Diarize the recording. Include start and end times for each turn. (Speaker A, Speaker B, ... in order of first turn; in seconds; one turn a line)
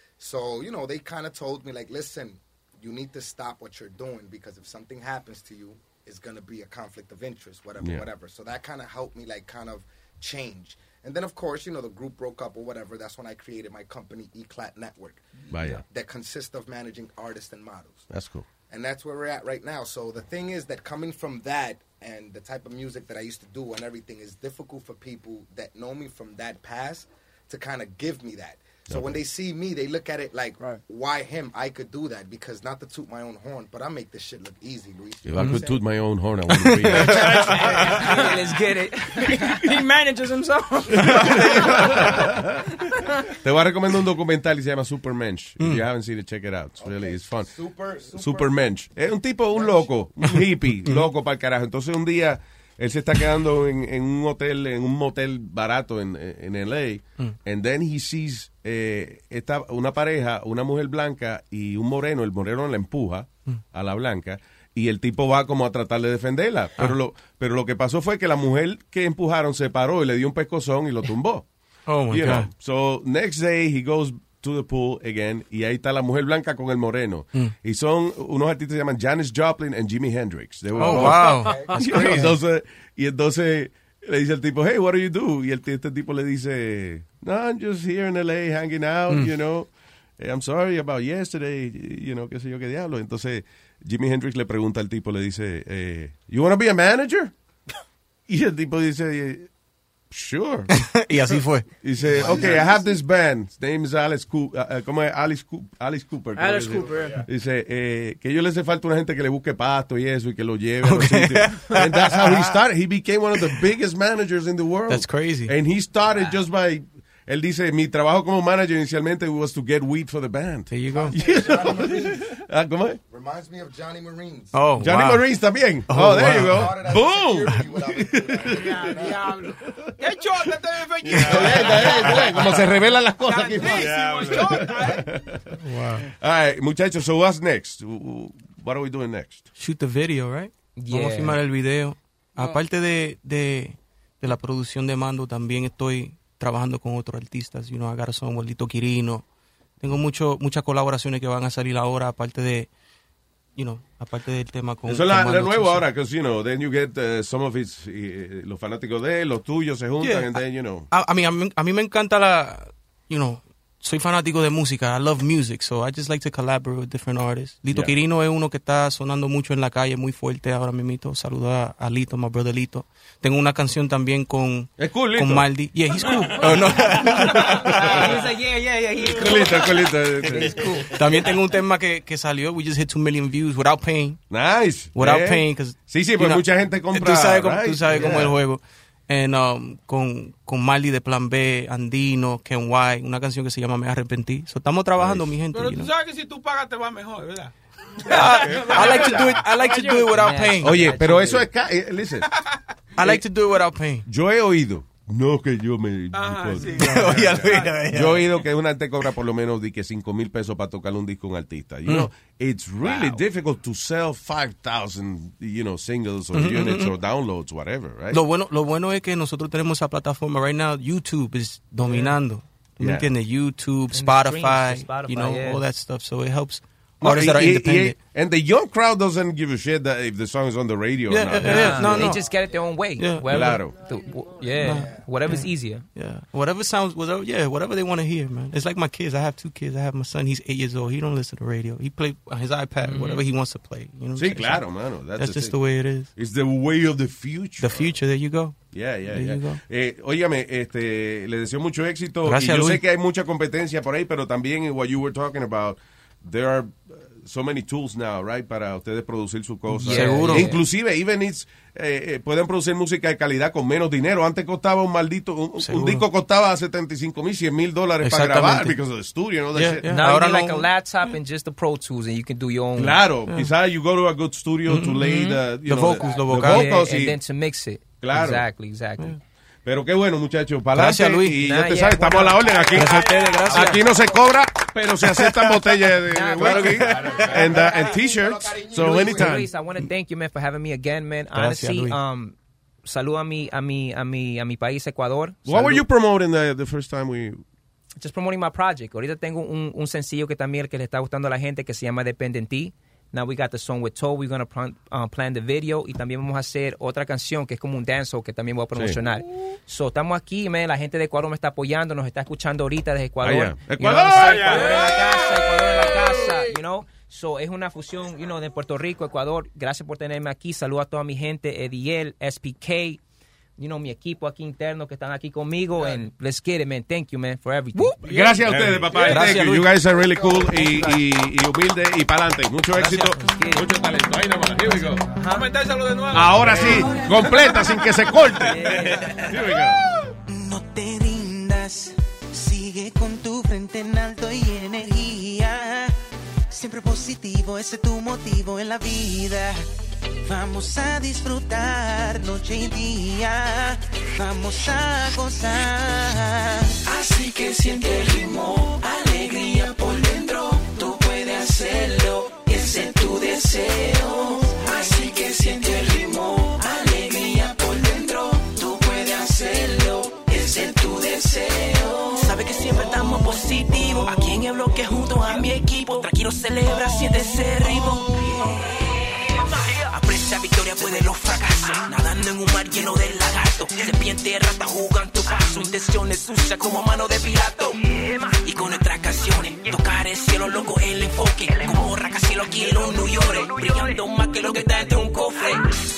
Speaker A: 0.2-15.2
Speaker B: 7.8-8.1
Speaker B: 15.5-15.8
Speaker A: 15.9-18.0
Speaker B: 18.1-18.5
Speaker A: 18.7-35.3
Speaker B: 28.9-29.2
Speaker B: 35.3-37.8
Speaker C: 35.4-35.7
Speaker C: 36.5-37.4
Speaker D: 39.2-41.5
Speaker B: 41.0-42.7
Speaker B: 43.4-47.5
Speaker C: 45.6-45.8
Speaker A: 46.8-48.4
Speaker B: 48.2-71.5
Speaker A: 49.5-49.8
Speaker C: 50.2-51.1
Speaker C: 71.9-72.5
Speaker B: 72.1-97.3
Speaker C: 80.8-82.4
Speaker D: 80.8-82.2
Speaker B: 98.3-99.5
Speaker B: 100.1-100.7
Speaker C: 100.7-102.4
Speaker B: 101.8-123.0
Speaker E: 102.4-102.7
Speaker D: 106.4-107.2
Speaker C: 110.8-112.5
Speaker C: 114.9-115.5
Speaker C: 120.7-121.2
Speaker A: 121.2-122.1
Speaker A: 123.1-124.5
Speaker C: 124.5-125.3
Speaker B: 124.8-129.7
Speaker C: 125.9-126.8
Speaker A: 126.7-129.1
Speaker E: 128.6-129.4
Speaker E: 130.0-135.0
Speaker B: 131.0-139.5
Speaker C: 135.7-136.0
Speaker C: 139.6-149.2
Speaker F: 140.8-141.4
Speaker C: 149.8-152.7
Speaker C: 153.6-155.8
Speaker B: 154.9-160.9
Speaker C: 160.0-177.3
Speaker B: 167.7-167.9
Speaker B: 174.8-175.5
Speaker B: 177.7-178.2
Speaker E: 178.1-179.9
Speaker B: 179.0-180.7
Speaker C: 180.9-184.2
Speaker B: 184.3-188.4
Speaker C: 184.9-195.9
Speaker B: 195.0-195.3
Speaker E: 195.4-197.5
Speaker E: 198.1-199.4
Speaker C: 198.1-200.9
Speaker D: 198.8-200.3
Speaker F: 200.2-201.4
Speaker B: 200.6-202.2
Speaker C: 203.0-204.1
Speaker B: 204.1-218.2
Speaker E: 206.1-207.7
Speaker C: 206.7-208.2
Speaker C: 211.8-212.1
Speaker C: 216.3-217.0
Speaker C: 218.1-228.0
Speaker B: 222.8-223.1
Speaker F: 223.9-225.6
Speaker B: 227.0-232.1
Speaker C: 231.1-232.2
Speaker F: 231.4-235.8
Speaker C: 233.0-233.6
Speaker B: 233.2-233.8
Speaker C: 234.6-246.1
Speaker E: 242.9-243.2
Speaker B: 244.1-248.0
Speaker C: 247.6-249.6
Speaker B: 248.7-269.9
Speaker C: 252.3-252.8
Speaker C: 259.7-260.6
Speaker F: 259.8-260.6
Speaker C: 265.6-266.0
Speaker C: 268.0-268.8
Speaker C: 269.6-270.6
Speaker F: 269.9-273.0
Speaker B: 272.8-277.2
Speaker C: 274.7-276.8
Speaker F: 276.4-279.2
Speaker B: 278.0-278.4
Speaker B: 279.6-289.4
Speaker C: 280.7-281.4
Speaker F: 281.4-282.4
Speaker C: 282.7-283.9
Speaker C: 285.0-287.4
Speaker A: 287.8-289.3
Speaker F: 289.1-295.8
Speaker C: 291.3-292.0
Speaker B: 295.4-297.4
Speaker F: 298.0-323.0
Speaker B: 313.2-315.0
Speaker E: 314.5-316.1
Speaker F: 323.6-328.0
Speaker E: 327.8-329.3
Speaker B: 328.1-335.1
Speaker C: 329.0-329.8
Speaker C: 332.8-333.2
Speaker F: 332.8-333.7
Speaker F: 335.2-335.5
Speaker E: 335.2-337.4
Speaker B: 336.1-339.8
Speaker F: 338.4-339.2
Speaker E: 338.7-339.1
Speaker G: 340.3-345.9
Speaker G: 346.5-349.7
Speaker G: 350.2-356.7
Speaker H: 356.9-395.7